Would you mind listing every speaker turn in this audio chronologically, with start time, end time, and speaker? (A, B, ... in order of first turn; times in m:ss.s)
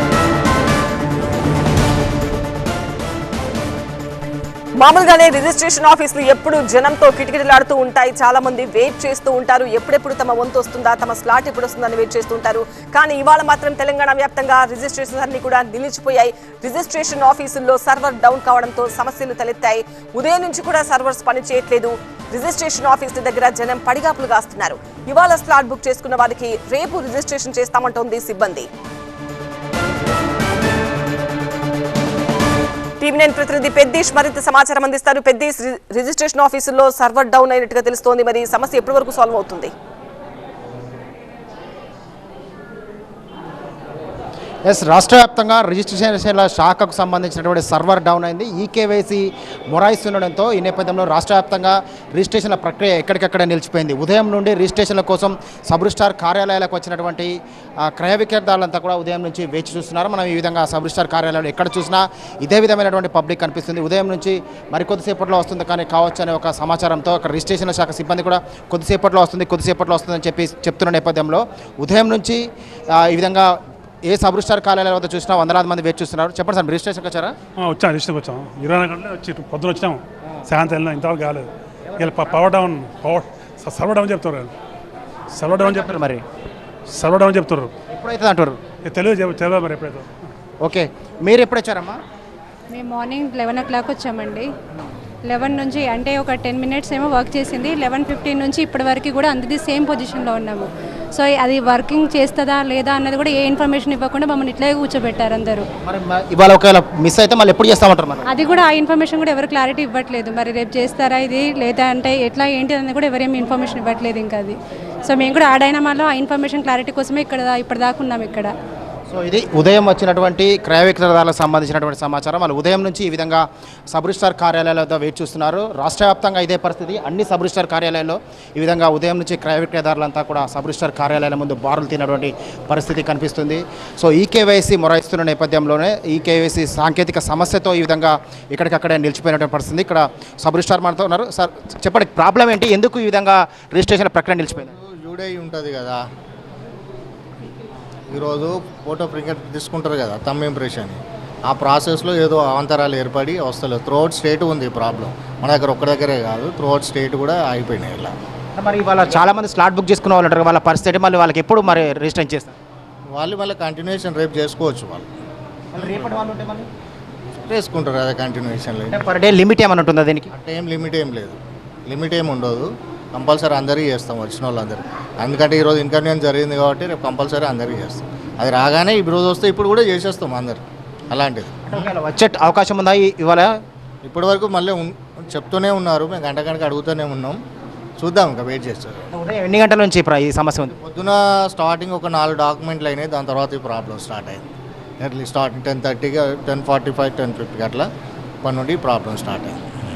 0:04.8-0:28.7 A
0:33.0-0:39.7 A
0:44.6-1:17.3 B
1:17.6-1:24.5 C
1:25.3-1:26.1 C
1:25.5-1:26.2 B
1:26.9-1:27.7 C
1:27.9-1:28.6 B
1:28.9-1:30.1 C
1:30.6-1:32.0 B
1:32.7-1:34.5 D
1:35.3-1:45.6 D
1:45.8-1:48.3 B
1:48.3-1:58.5 D
1:59.1-2:24.7 B
2:24.6-2:26.0 E
2:28.1-2:38.1 E
2:38.6-2:42.6 B
2:43.1-2:45.1 E
2:45.7-2:46.7 B
2:47.5-2:49.0 E
2:48.9-2:50.3 B
2:50.3-3:01.9 E
3:01.7-3:03.5 B
3:04.0-3:07.4 E
3:08.0-3:09.0 E
3:09.1-3:10.7 B
3:10.7-3:14.4 E
3:15.0-3:17.9 E
3:18.4-3:19.6 E